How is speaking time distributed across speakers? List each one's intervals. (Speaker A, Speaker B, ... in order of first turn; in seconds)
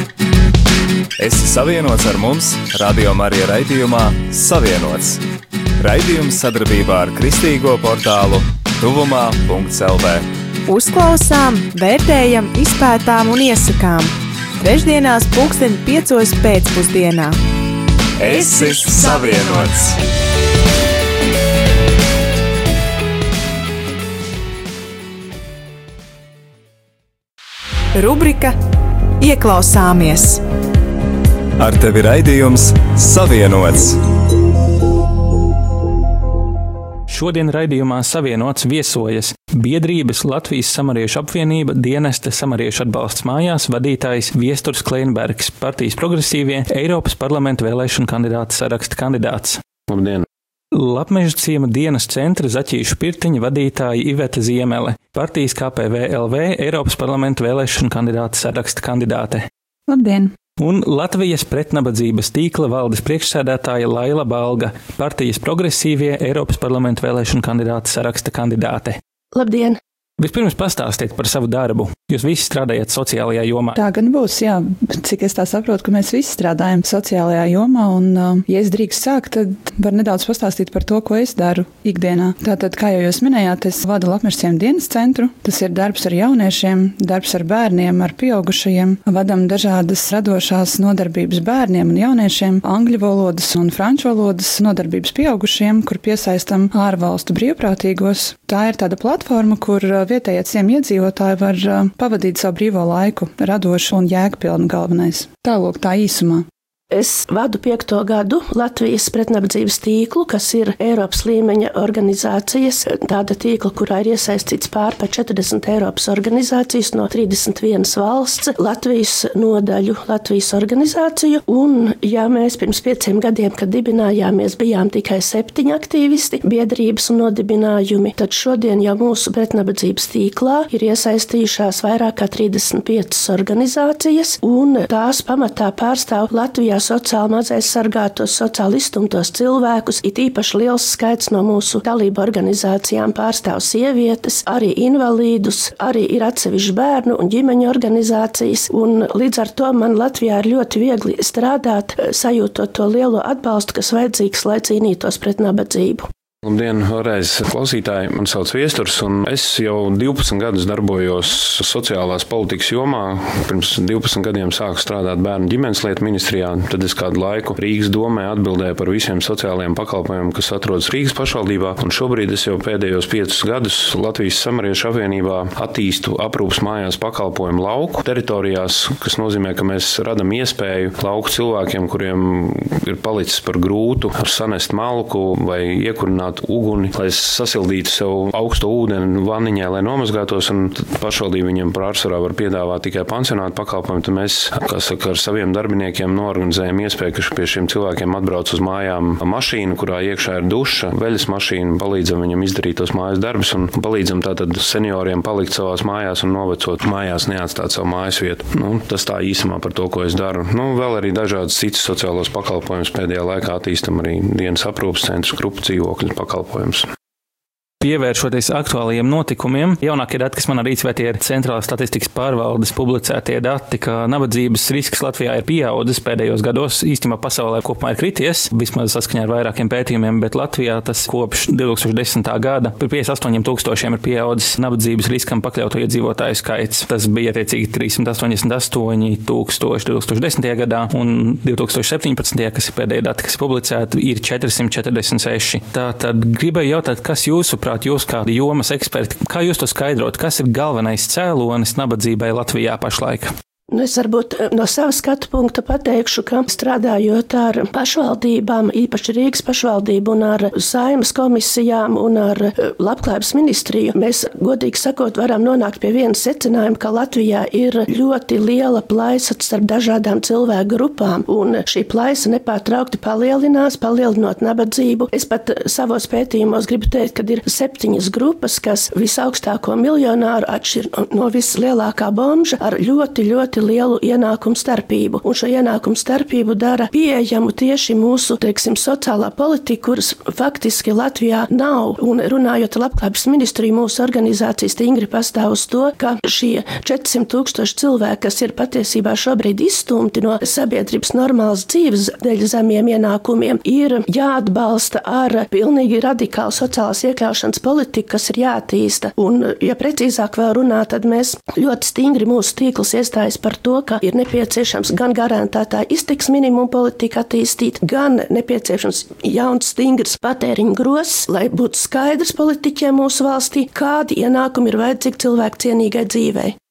Speaker A: 1.2-5.2, 5.8-10.2, 18.2-19.9, 31.6-34.0
Speaker B: 10.7-17.4, 18.3-19.6, 27.9-28.6, 29.2-30.4
Speaker C: 37.1-49.6, 50.7-59.5, 60.6-69.0, 70.2-73.8, 217.8-253.3
Speaker D: 49.9-50.2, 156.4-216.9
Speaker E: 59.9-60.3, 73.7-106.5
Speaker F: 69.3-69.8, 106.9-156.1, 253.7-326.6